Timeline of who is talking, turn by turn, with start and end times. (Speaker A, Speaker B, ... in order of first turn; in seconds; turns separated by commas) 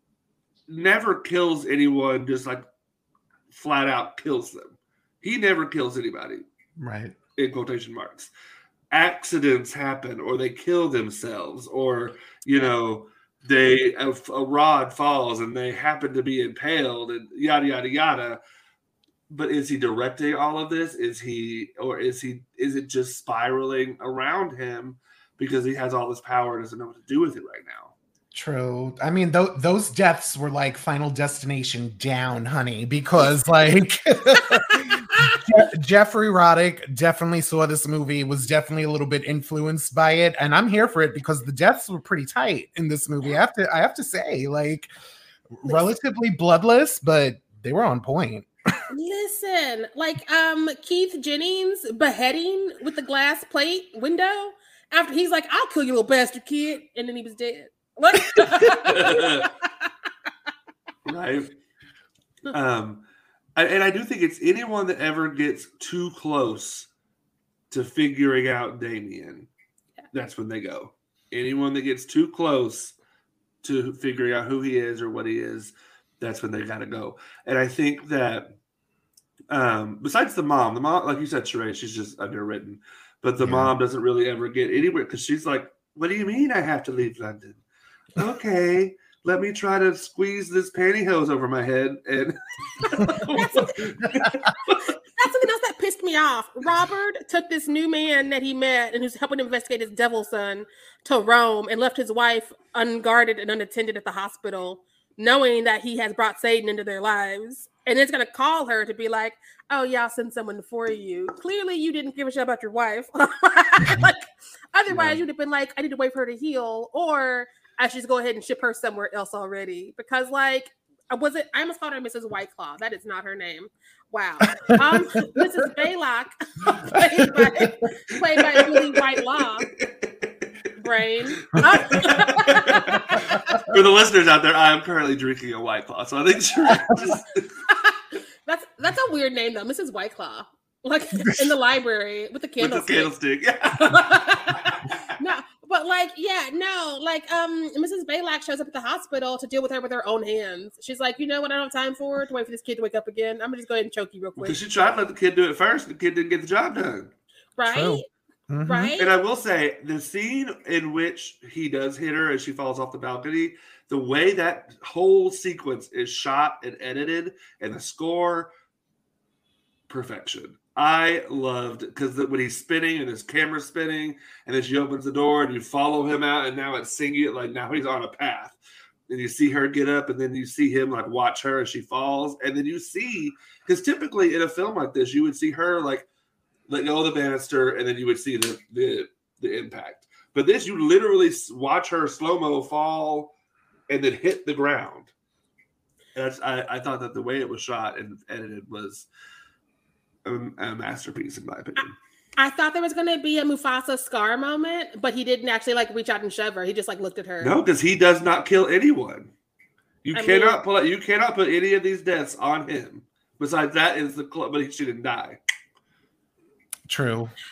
Speaker A: 0.7-2.6, Speaker A: 3.5-6.4, Speaker B: 6.8-7.1, Speaker A: 7.4-8.3, Speaker A: 8.9-18.4, Speaker A: 19.3-27.9, Speaker B: 28.3-44.9, Speaker C: 34.5-35.5, Speaker B: 45.5-48.5, Speaker C: 48.9-59.9, Speaker A: 58.8-59.5, Speaker A: 61.0-61.5, Speaker A: 62.5-63.0, Speaker A: 63.5-66.9, Speaker A: 67.7-69.5, Speaker A: 70.1-72.9, Speaker A: 73.6-78.5, Speaker A: 79.5-87.6, Speaker B: 83.4-83.7, Speaker A: 88.2-94.9, Speaker C: 93.3-93.8, Speaker C: 95.2-129.7, Speaker B: 124.6-125.0, Speaker B: 126.9-127.7, Speaker A: 128.3-130.5, Speaker C: 130.8-133.7, Speaker A: 131.4-137.5, Speaker B: 133.1-133.6, Speaker B: 136.7-137.2, Speaker C: 137.7-143.1, Speaker A: 142.6-144.9, Speaker C: 143.7-154.6, Speaker A: 154.4-157.1, Speaker C: 157.6-158.1, Speaker B: 157.6-158.9, Speaker C: 158.7-159.1, Speaker A: 159.0-168.5, Speaker A: 169.9-178.6, Speaker A: 179.1-186.1, Speaker A: 186.7-193.3, Speaker A: 193.9-195.1, Speaker A: 196.1-199.1, Speaker A: 200.2-201.9, Speaker C: 202.4-207.5, Speaker A: 207.4-209.3, Speaker A: 210.0-215.4, Speaker C: 210.1-210.6, Speaker B: 216.9-217.3